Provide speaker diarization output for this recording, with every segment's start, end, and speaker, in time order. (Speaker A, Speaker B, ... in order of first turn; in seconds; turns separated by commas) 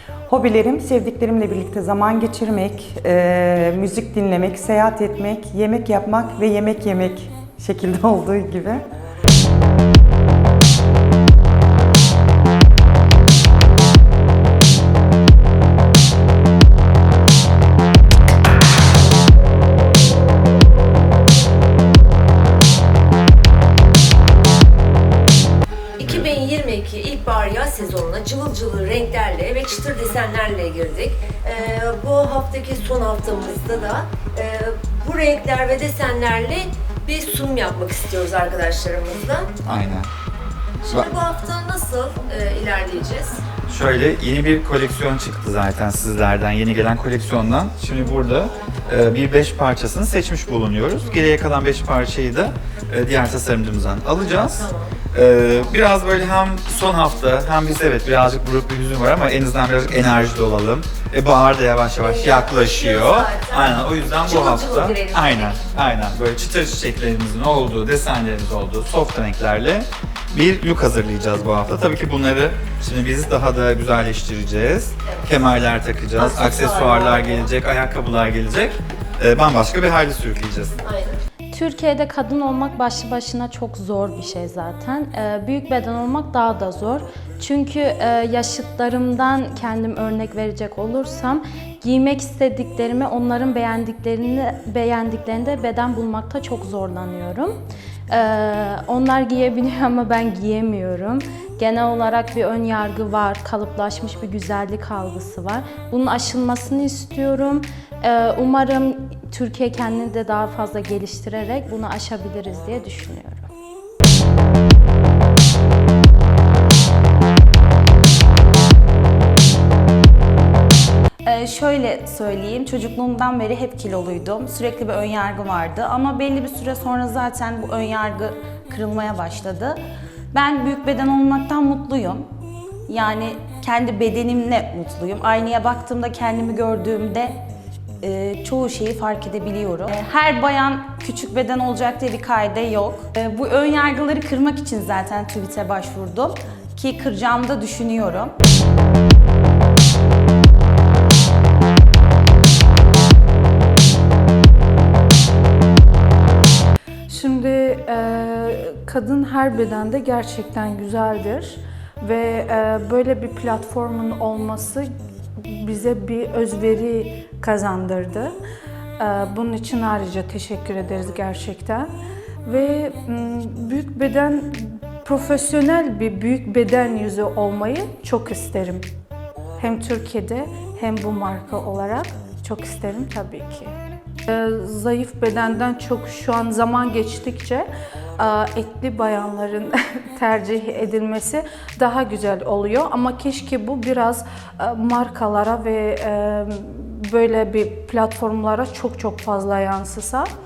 Speaker A: 0.3-8.8, Speaker B: 26.0-39.5, Speaker C: 39.6-40.1, Speaker B: 40.9-43.4, Speaker C: 43.7-80.8, Speaker B: 54.2-54.9, Speaker B: 62.0-65.7, Speaker B: 75.0-75.6, Speaker B: 76.2-77.5, Speaker B: 80.8-81.2, Speaker D: 81.5-113.5, Speaker E: 121.2-129.8, Speaker E: 130.3-132.3, Speaker E: 132.9-137.4, Speaker E: 138.0-148.3, Speaker F: 157.1-168.3, Speaker F: 169.0-171.9, Speaker F: 172.4-178.8, Speaker F: 179.6-183.7, Speaker F: 184.3-187.7, Speaker F: 188.2-200.3